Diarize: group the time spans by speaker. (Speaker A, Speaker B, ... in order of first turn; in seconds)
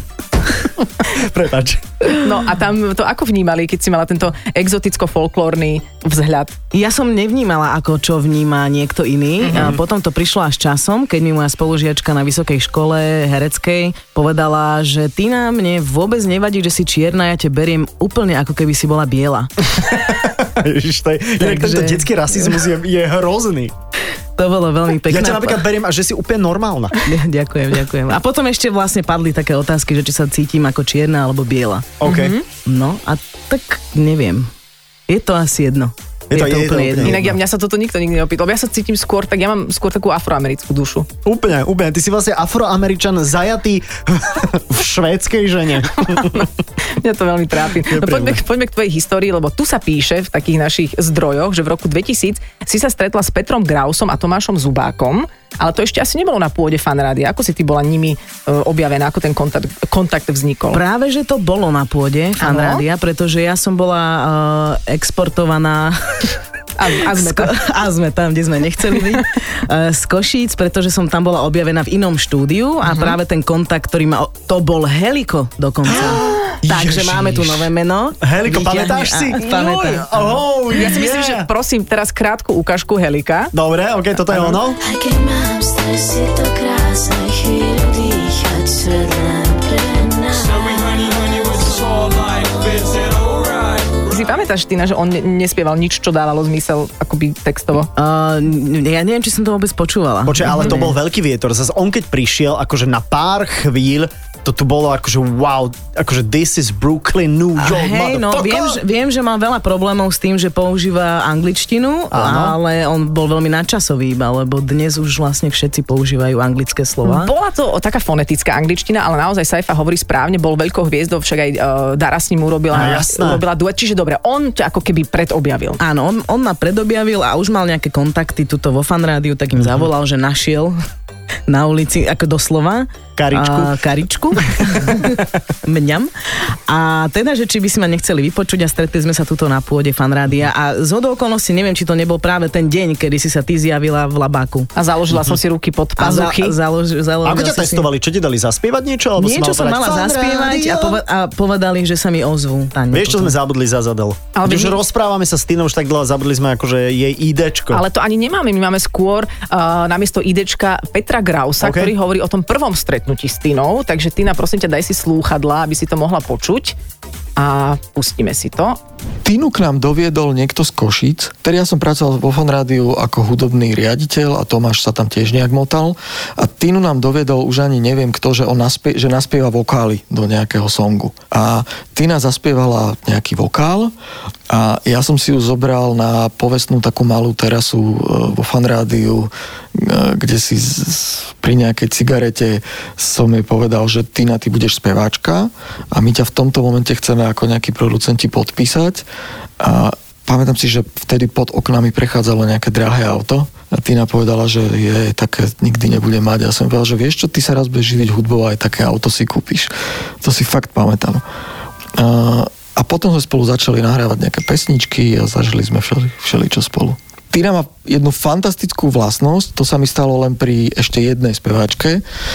Speaker A: 1.0-2.1, 19.8-23.7, 25.1-27.1, 32.0-32.4, 36.3-37.4, 41.2-46.5, 47.9-48.4, 75.9-77.7, 78.2-81.5, 83.5-84.8, 100.3-108.8, 112.1-112.6, 122.7-123.4, 129.6-129.9, 133.2-133.8, 134.6-135.0, 147.2-151.0, 152.9-157.8, 161.6-161.9
Speaker B: 2.1-6.5, 9.4-9.7, 32.0-32.5, 37.0-41.1, 46.0-60.8, 62.4-62.8, 66.8-67.6, 79.4-83.5, 84.2-84.6, 94.0-97.9, 100.5-100.8, 117.0-125.8, 144.8-146.6, 154.4-154.8, 157.7-166.8, 167.4-168.8
Speaker C: 6.7-19.5, 21.4-22.1, 24.4-25.6, 27.1-32.0, 32.6-34.5, 35.1-37.2, 60.7-66.0, 67.0-80.4, 85.1-91.4, 98.0-101.0, 107.6-117.3, 125.8-130.8, 131.5-144.7, 146.0-147.9, 149.2-153.3
Speaker D: 84.9-85.8, 88.8-89.8
Speaker E: 169.2-183.9, 184.5-199.0, 199.6-211.2, 212.0-222.0